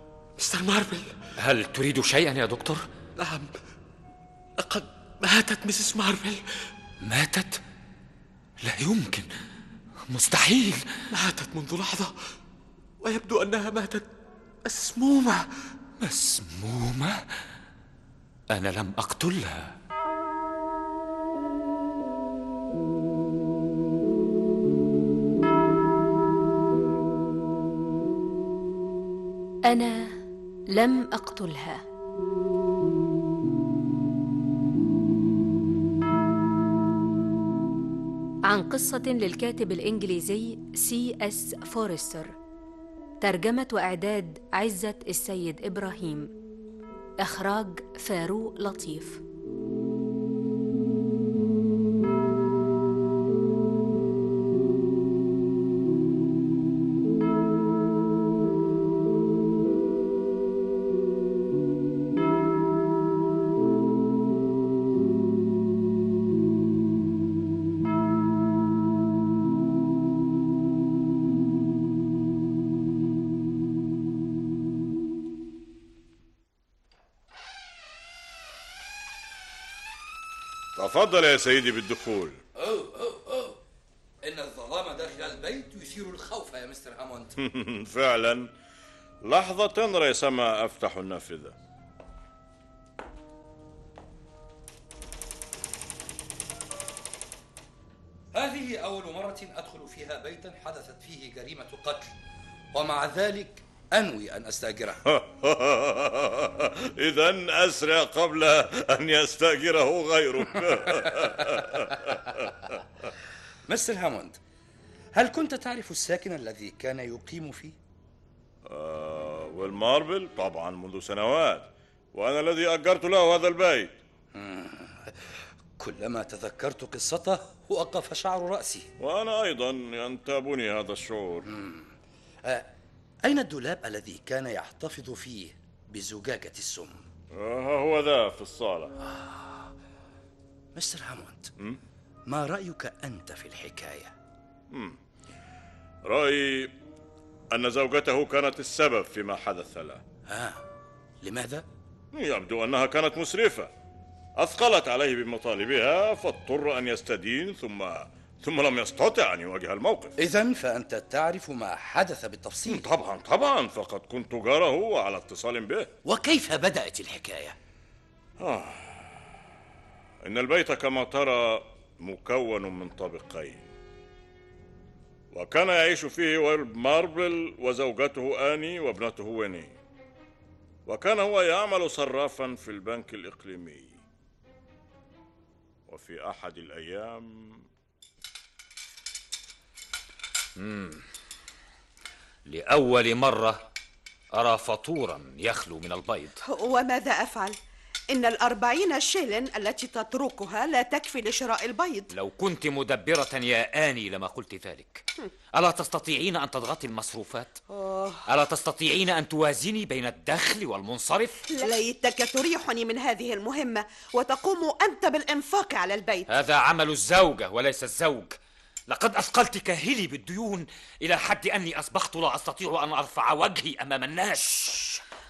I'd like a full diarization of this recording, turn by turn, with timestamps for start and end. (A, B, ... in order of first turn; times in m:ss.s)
0:00.4-0:01.1 A
0:01.4-0:02.8 B
0:03.2-0:03.6 A
0:04.6-0:06.4 A
0:07.0-0:07.6 B
0:08.6-0:09.3 B
0:10.1-0:10.9 B
0:11.1-0:12.1 A
0:13.0-0:14.1 A
0:14.6-0:15.4 A
0:16.0-0:17.2 B
0:18.5-0:19.7 B
0:29.7-0:30.2 C
0:30.7-0:31.8 C
0:38.5-0:42.3 C
0:43.2-0:46.3 C
0:47.2-0:49.2 C
1:20.8-1:22.4 D
1:22.6-1:23.6 E
1:24.2-1:27.3 E
1:27.4-1:28.5 D
1:29.2-1:31.6 D
1:38.3-1:42.2 E
1:42.7-1:45.0 E
1:45.1-1:52.8 D
1:53.7-1:54.4 E
1:55.1-1:57.8 E
1:58.7-2:03.9 D
2:04.4-2:08.9 E
2:09.0-2:11.5 D
2:11.5-2:11.9 E
2:12.4-2:12.7 E
2:13.2-2:17.0 E
2:17.3-2:18.9 D
2:19.0-2:19.7 E
2:20.8-2:21.5 E
2:22.3-2:24.1 E
2:24.7-2:25.0 D
2:26.0-2:26.7 D
2:27.5-2:30.0 D
2:30.3-2:30.6 E
2:31.2-2:31.6 E
2:32.1-2:33.7 D
2:34.4-2:40.1 D
2:40.2-2:42.9 E
2:42.7-2:45.9 D
2:46.1-2:47.5 E
2:48.4-2:49.0 D
2:50.2-2:53.7 D
2:55.3-2:59.7 D
3:00.9-3:04.0 D
3:05.9-3:07.6 D
3:10.6-3:11.0 B
3:12.5-3:13.6 B
3:14.3-3:16.4 B
3:16.5-3:17.6 F
3:18.1-3:22.1 F
3:22.1-3:27.6 B
3:27.7-3:28.2 F
3:28.3-3:31.5 B
3:31.5-3:36.3 F
3:36.3-3:45.0 B